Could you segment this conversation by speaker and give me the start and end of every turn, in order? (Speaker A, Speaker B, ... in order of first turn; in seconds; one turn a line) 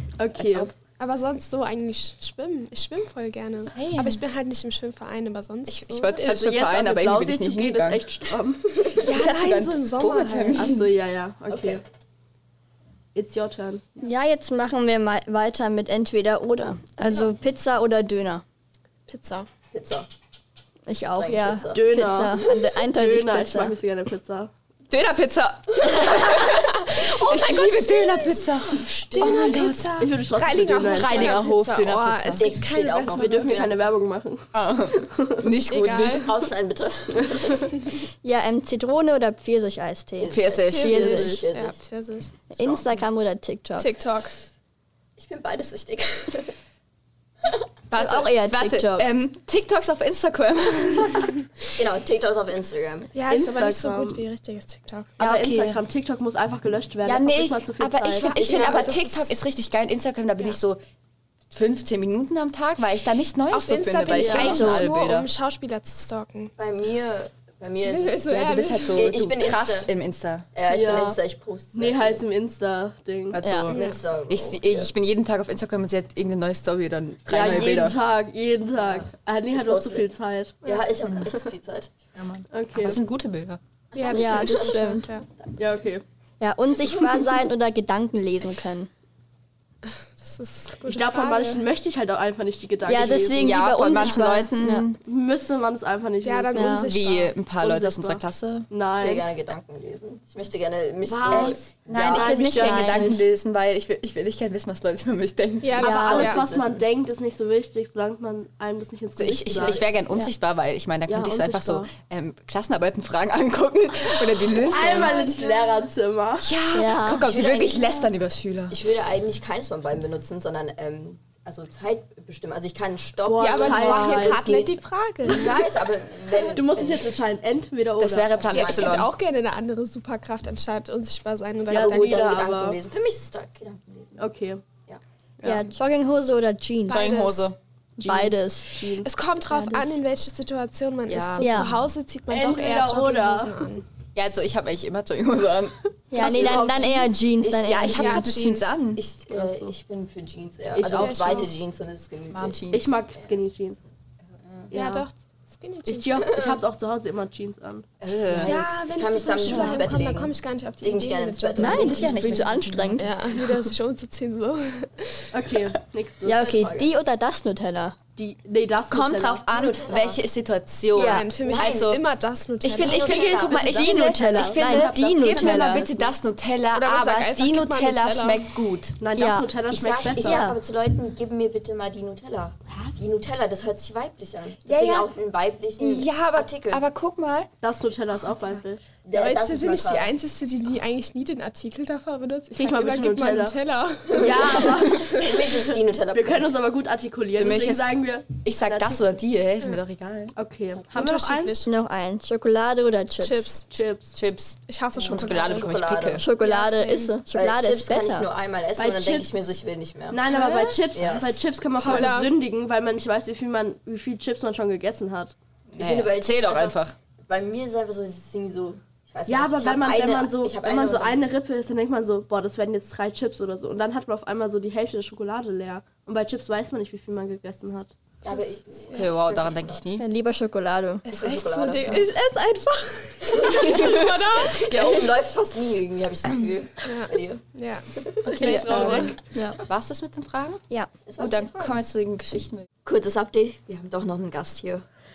Speaker A: 0.2-0.7
Speaker B: 0.3-0.7
Speaker C: 1.0-6.2
Speaker B: 3.6-4.2
Speaker B: 5.7-8.3
Speaker A: 6.2-8.7
Speaker B: 8.9-10.9
Speaker C: 9.0-10.7
Speaker A: 10.5-11.8
Speaker D: 11.5-11.8
Speaker A: 13.1-14.0
Speaker E: 14.0-18.4
Speaker C: 19.1-19.5
Speaker D: 19.7-20.1
Speaker E: 20.9-23.7
Speaker D: 21.1-22.1
Speaker A: 21.7-24.5
Speaker B: 24.9-30.1
Speaker C: 26.9-28.4
Speaker D: 28.7-29.7
Speaker C: 29.1-33.6
Speaker A: 30.0-31.4
Speaker B: 30.9-32.5
Speaker D: 32.3-33.9
Speaker A: 33.1-35.5
Speaker B: 34.5-36.3
Speaker C: 35.7-36.3
Speaker D: 36.0-37.6
Speaker E: 38.2-41.4
Speaker D: 40.2-41.8
Speaker B: 40.3-41.1
Speaker C: 40.7-42.4
Speaker E: 42.5-43.9
Speaker C: 43.8-44.3
Speaker D: 45.2-46.5
Speaker B: 47.9-51.4
Speaker E: 47.9-49.0
Speaker D: 51.7-53.1
Speaker C: 53.1-55.1
Speaker A: 53.3-54.2
Speaker B: 55.2-55.8
Speaker A: 55.2-58.6
Speaker B: 57.0-60.8
Speaker C: 58.2-59.3
Speaker D: 58.4-58.9
Speaker B: 61.5-65.3
Speaker C: 63.5-66.5
Speaker D: 64.1-64.8
Speaker A: 64.1-64.6
Speaker D: 66.6-68.2
Speaker C: 67.8-69.1
Speaker B: 68.2-70.5
Speaker D: 68.9-69.9
Speaker D: 70.5-72.2
Speaker A: 70.7-71.2
Speaker A: 71.7-73.4
Speaker B: 73.3-78.0
Speaker E: 73.4-73.7
Speaker D: 73.7-74.9
Speaker C: 73.7-74.0
Speaker A: 77.3-81.2
Speaker D: 77.4-77.9
Speaker D: 79.5-80.1
Speaker D: 80.6-81.9
Speaker B: 82.1-83.6
Speaker A: 82.5-83.0
Speaker D: 83.9-84.8
Speaker C: 83.9-85.3
Speaker E: 84.1-85.2
Speaker A: 85.6-86.0
Speaker E: 86.4-88.9
Speaker C: 90.2-91.7
Speaker A: 90.8-93.6
Speaker E: 92.8-94.9
Speaker B: 92.9-95.0
Speaker A: 95.0-96.8
Speaker C: 96.2-97.3
Speaker E: 96.5-96.9
Speaker B: 96.9-98.7
Speaker A: 97.6-99.2
Speaker D: 99.0-103.1
Speaker A: 101.0-103.2
Speaker B: 101.3-106.2
Speaker C: 105.6-106.4
Speaker A: 105.8-109.8
Speaker E: 105.8-106.2
Speaker D: 105.8-106.8
Speaker B: 109.2-115.2
Speaker A: 111.1-111.9
Speaker A: 114.5-116.5
Speaker C: 114.7-115.8
Speaker B: 116.4-118.8
Speaker E: 116.7-117.3
Speaker D: 117.2-118.1
Speaker D: 118.7-127.1
Speaker A: 123.2-124.4
Speaker C: 123.4-125.7
Speaker B: 123.8-124.3
Speaker A: 126.4-128.4
Speaker B: 128.0-129.1
Speaker D: 128.3-129.0
Speaker C: 128.5-132.3
Speaker A: 131.7-132.8
Speaker D: 131.7-134.3
Speaker A: 134.2-134.6
Speaker A: 135.4-135.7
Speaker E: 135.4-137.2
Speaker C: 136.9-137.4
Speaker B: 136.9-137.6
Speaker E: 138.0-138.8
Speaker A: 138.0-139.1
Speaker C: 139.0-143.8
Speaker E: 139.5-140.0
Speaker D: 141.1-141.7
Speaker E: 141.4-141.7
Speaker A: 142.3-143.6
Speaker B: 144.1-146.9
Speaker E: 146.1-148.3
Speaker A: 146.1-147.2
Speaker D: 147.4-148.3
Speaker B: 147.6-149.0
Speaker C: 147.9-148.7
Speaker D: 148.9-153.3
Speaker A: 149.3-149.7
Speaker A: 150.7-151.5
Speaker C: 150.9-151.5
Speaker B: 152.3-153.0
Speaker A: 152.7-153.8
Speaker D: 154.5-154.7
Speaker A: 154.7-155.1
Speaker C: 154.7-156.4
Speaker A: 155.8-157.9
Speaker D: 156.3-156.6
Speaker B: 158.0-158.6
Speaker C: 158.3-162.3
Speaker D: 158.4-162.4
Speaker E: 161.6-163.1
Speaker B: 161.6-163.4
Speaker C: 163.0-165.3
Speaker A: 165.3-166.3
Speaker E: 166.2-167.9
Speaker D: 166.3-166.9
Speaker A: 168.2-169.4
Speaker B: 168.9-172.0
Speaker D: 169.5-170.2
Speaker C: 170.9-173.3
Speaker D: 171.4-171.9
Speaker B: 172.6-179.0
Speaker A: 172.8-176.1
Speaker D: 172.8-173.7
Speaker E: 173.8-175.8
Speaker C: 176.7-178.4
Speaker A: 179.0-180.4
Speaker E: 179.2-179.5
Speaker D: 179.7-186.8
Speaker E: 180.2-180.6
Speaker B: 184.7-185.1
Speaker B: 185.8-187.5
Speaker A: 187.6-188.8
Speaker D: 189.0-190.1
Speaker C: 189.1-195.0
Speaker A: 192.6-193.6
Speaker D: 194.1-196.5
Speaker A: 194.2-199.0
Speaker B: 197.3-200.3
Speaker A: 200.3-201.6
Speaker C: 200.9-201.7
Speaker E: 201.6-203.5
Speaker C: 203.2-203.7
Speaker A: 203.7-204.2
Speaker B: 204.1-206.2
Speaker C: 204.7-205.7
Speaker D: 205.0-206.3
Speaker E: 206.2-208.3
Speaker C: 206.4-207.1
Speaker D: 207.3-210.2
Speaker A: 208.8-209.4
Speaker A: 210.1-215.3
Speaker C: 210.2-210.8
Speaker D: 210.9-212.1
Speaker C: 211.8-212.3
Speaker B: 215.7-216.9
Speaker D: 215.7-221.2
Speaker A: 219.3-227.9
Speaker D: 228.2-229.8
Speaker B: 228.9-230.0
Speaker E: 230.0-231.1
Speaker C: 231.0-234.8
Speaker D: 231.1-232.1
Speaker D: 233.2-237.4
Speaker B: 233.6-235.0
Speaker C: 236.8-239.2
Speaker D: 237.9-238.3
Speaker A: 238.3-239.2
Speaker B: 238.3-240.6
Speaker E: 239.3-239.6
Speaker D: 241.0-241.8
Speaker B: 241.2-242.7
Speaker D: 242.8-244.8